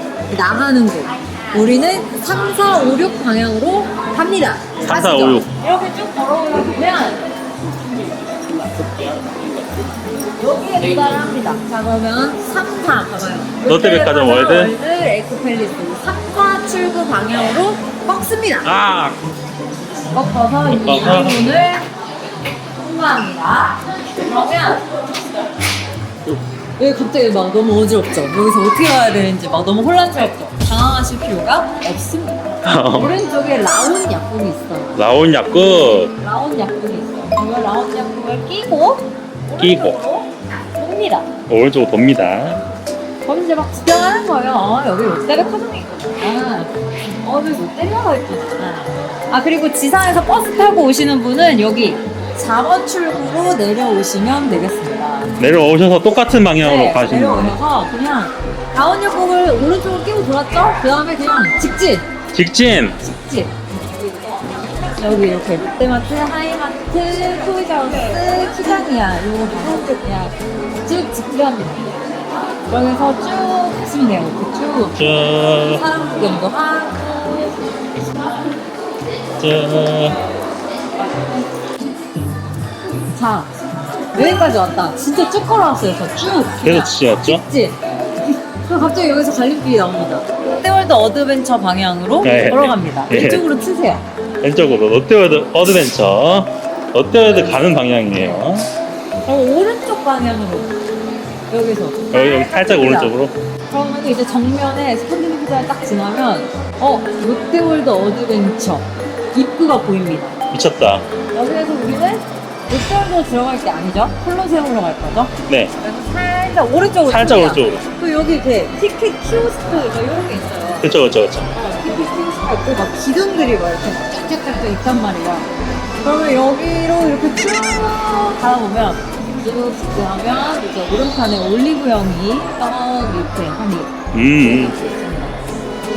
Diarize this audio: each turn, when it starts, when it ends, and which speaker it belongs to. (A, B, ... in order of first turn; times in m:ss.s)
0:00.3-0:07.2 A
0:04.8-0:05.5 B
0:10.4-0:18.7 A
0:13.6-0:14.7 B
0:18.6-0:19.2 B
0:20.1-0:21.8 A
0:20.7-0:21.4 B
0:22.8-0:24.8 A
0:26.8-0:35.0 A
0:32.6-0:33.1 B
0:34.9-0:36.1 B
0:35.6-0:41.3 A
0:39.6-0:40.0 B
0:41.5-0:42.6 B
0:43.2-0:46.7 A
0:47.2-0:55.3 A
0:55.4-0:57.6 B
0:56.6-1:02.1 A
1:02.3-1:03.0 B
1:03.0-1:04.4 A
1:05.0-1:12.0 A
1:12.7-1:15.0 A
1:14.9-1:15.8 B
1:15.6-1:17.8 A
1:19.4-1:20.2 B
1:23.1-1:23.5 A
1:24.1-1:34.0 A
1:26.6-1:27.4 B
1:32.2-1:33.4 B
1:34.4-1:38.7 B
1:37.2-1:38.5 A
1:39.2-1:40.7 A
1:41.5-1:43.1 A
1:42.1-1:43.3 B
1:43.7-1:50.4 A
1:50.5-1:51.0 B
1:51.3-2:00.9 A
1:55.5-1:55.7 B
1:57.1-1:57.8 B
2:00.8-2:01.5 B
2:01.5-2:05.5 A
2:06.0-2:15.3 A
2:14.1-2:14.8 B